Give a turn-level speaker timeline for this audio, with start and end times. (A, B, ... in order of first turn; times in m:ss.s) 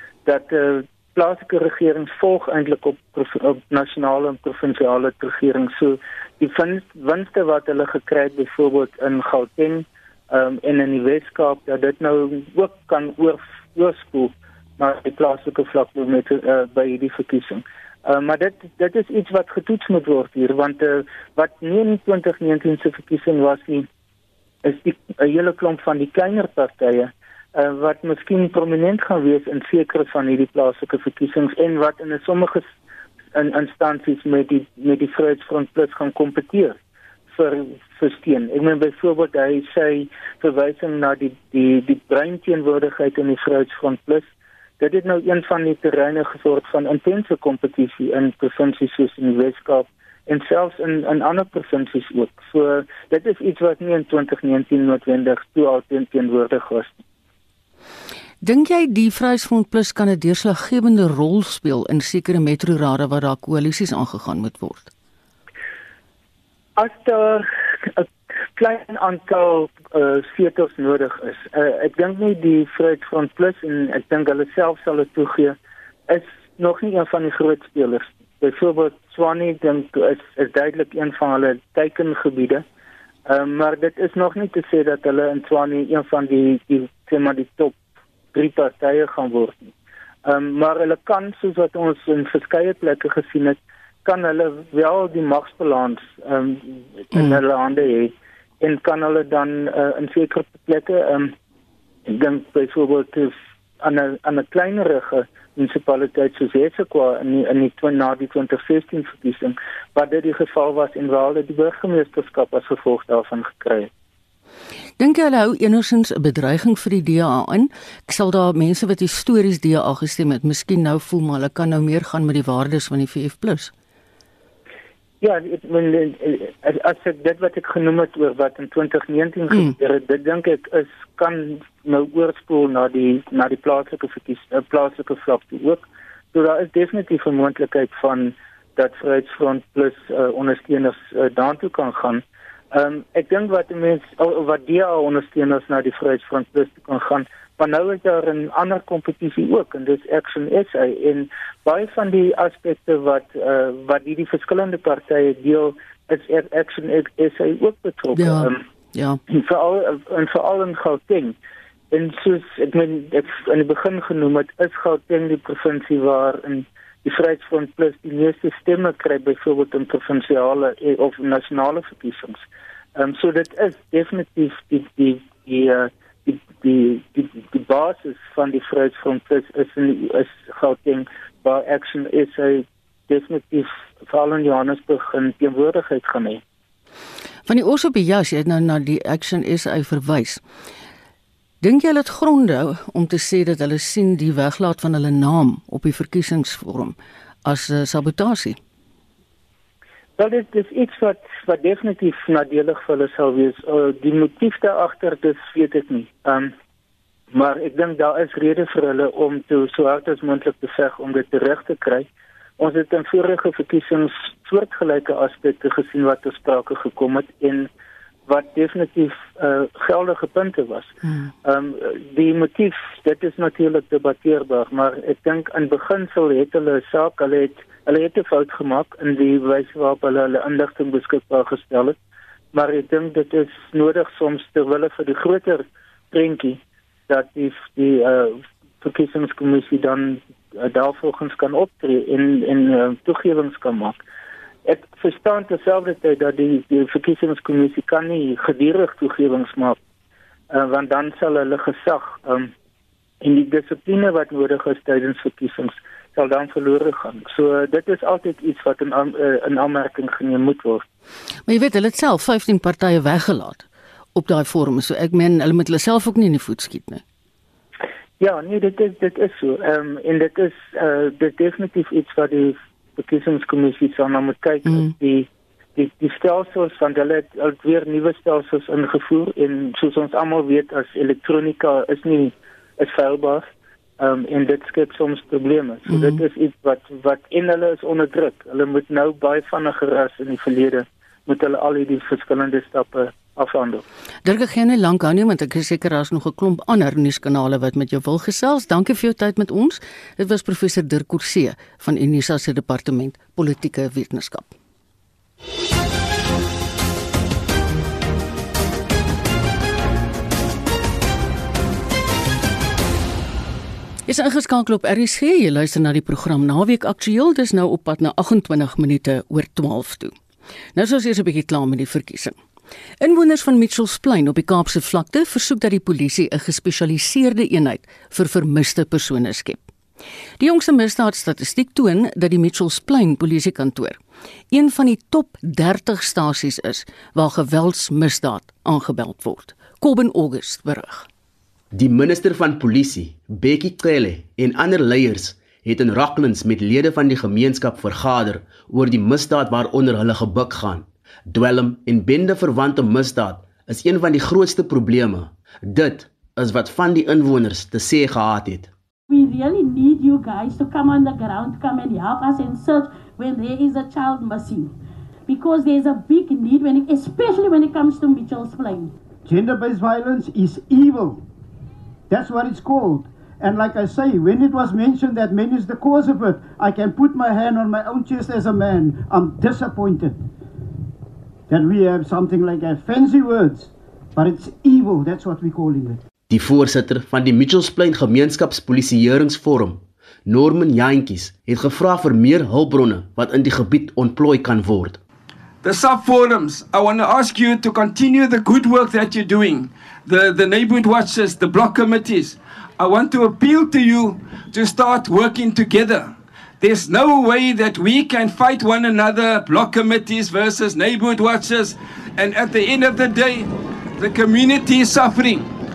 0:00.2-0:23.9 A
0:24.6-0:32.6 A
0:33.3-0:36.8 A
0:37.3-0:44.3 A
0:44.8-0:56.9 A
0:58.4-1:04.9 B
1:06.8-1:15.6 A
1:16.1-1:22.6 A
1:23.3-1:27.8 A
1:28.3-1:29.6 A
1:30.2-1:41.3 A
1:42.1-1:53.9 A
1:55.0-2:03.7 B
2:05.2-2:38.6 A
2:38.1-2:39.2 B
2:39.3-2:41.3 A
2:41.9-2:52.4 A
2:53.0-3:06.4 A
3:07.4-3:10.4 B
3:11.6-3:18.6 B
3:20.2-3:26.5 A
3:27.3-3:32.1 A
3:32.6-3:37.7 A
3:38.3-3:40.9 A
3:41.4-3:52.0 A
3:52.5-4:04.0 A
4:04.6-4:09.8 A
4:10.5-4:12.5 A
4:13.2-4:20.8 A
4:21.5-4:27.0 B
4:28.2-4:43.5 A
4:44.0-4:53.8 A
4:45.9-4:46.2 B
4:54.2-5:04.5 B
5:14.1-5:20.1 B
5:20.7-5:22.4 B
5:23.0-5:29.6 B
5:30.4-5:34.0 B
5:34.5-5:41.1 B
5:41.7-5:58.7 C
5:59.1-6:04.8 D
6:05.3-6:08.9 D
6:09.2-6:11.2 E
6:12.1-6:20.2 E
6:21.5-6:26.0 E
6:26.3-6:35.0 C
6:35.6-6:55.5 F